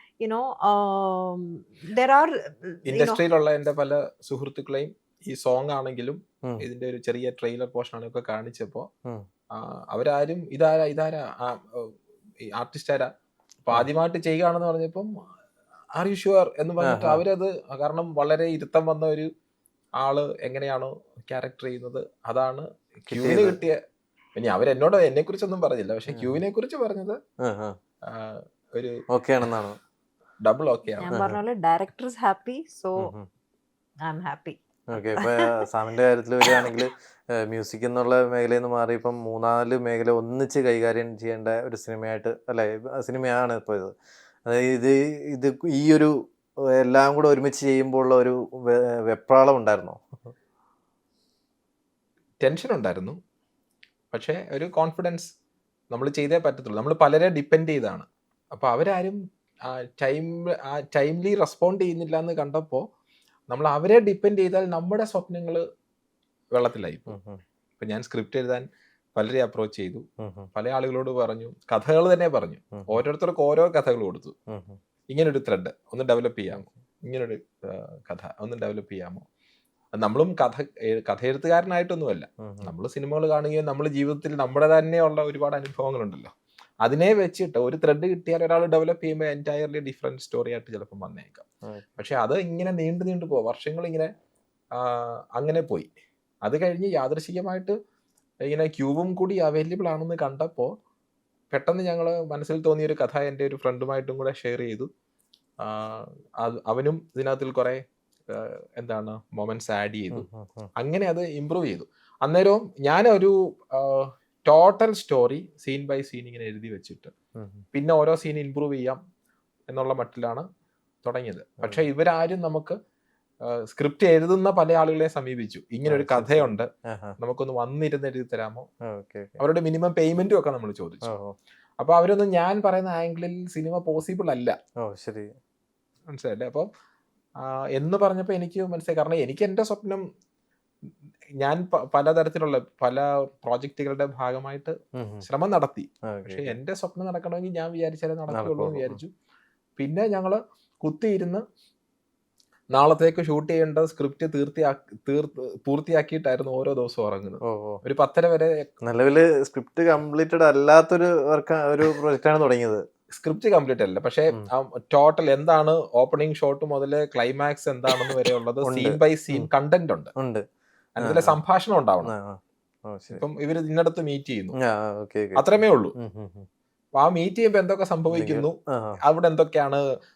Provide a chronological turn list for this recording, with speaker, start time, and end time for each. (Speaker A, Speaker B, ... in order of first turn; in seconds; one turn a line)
Speaker A: 0.2-3.2
Speaker B: 2.9-8.9
Speaker B: 9.6-11.9
Speaker B: 12.6-13.1
Speaker B: 13.7-15.1
Speaker B: 15.9-19.3
Speaker C: 16.8-17.2
Speaker B: 20.0-23.8
Speaker C: 23.1-23.6
Speaker B: 24.4-27.2
Speaker C: 26.1-26.4
Speaker C: 27.4-27.8
Speaker B: 28.1-29.0
Speaker C: 29.1-29.8
Speaker B: 30.4-31.1
Speaker A: 31.0-33.1
Speaker C: 31.1-31.4
Speaker C: 33.0-33.3
Speaker A: 34.0-35.5
Speaker C: 34.9-43.9
Speaker C: 44.5-46.1
Speaker C: 46.8-50.0
Speaker B: 52.4-53.2
Speaker B: 54.1-55.3
Speaker B: 55.9-62.9
Speaker B: 63.5-65.6
Speaker B: 66.5-67.1
Speaker C: 67.1-67.4
Speaker B: 67.8-70.0
Speaker C: 70.2-70.5
Speaker B: 70.5-74.3
Speaker C: 74.5-74.8
Speaker B: 75.1-79.2
Speaker B: 80.0-86.3
Speaker C: 82.4-82.7
Speaker B: 86.8-91.5
Speaker B: 92.0-94.1
Speaker B: 94.8-95.9
Speaker B: 96.4-97.8
Speaker B: 98.5-100.7
Speaker B: 101.5-104.9
Speaker B: 105.6-110.3
Speaker C: 110.1-110.7
Speaker B: 110.8-117.1
Speaker C: 117.3-117.6
Speaker B: 117.7-119.0
Speaker B: 119.7-120.5
Speaker B: 121.0-122.8
Speaker B: 123.5-126.7
Speaker C: 125.9-127.2
Speaker B: 127.2-128.7
Speaker C: 128.9-129.4
Speaker B: 129.4-131.1
Speaker C: 131.1-131.4
Speaker B: 131.8-134.6
Speaker C: 134.8-135.3
Speaker B: 136.1-136.7
Speaker B: 137.4-140.0
Speaker B: 141.4-149.1
Speaker C: 144.9-145.3
Speaker C: 146.1-146.6
Speaker C: 148.3-149.0
Speaker B: 149.8-151.4
Speaker B: 152.7-158.7
Speaker C: 157.4-157.8
Speaker C: 158.8-162.8
Speaker B: 163.2-170.1
Speaker C: 168.6-169.5
Speaker C: 170.2-170.4
Speaker B: 171.0-172.1
Speaker C: 171.0-171.4
Speaker C: 172.1-173.2
Speaker B: 173.1-174.6
Speaker C: 174.6-176.5
Speaker B: 175.4-175.9
Speaker B: 177.0-179.8
Speaker C: 178.1-179.0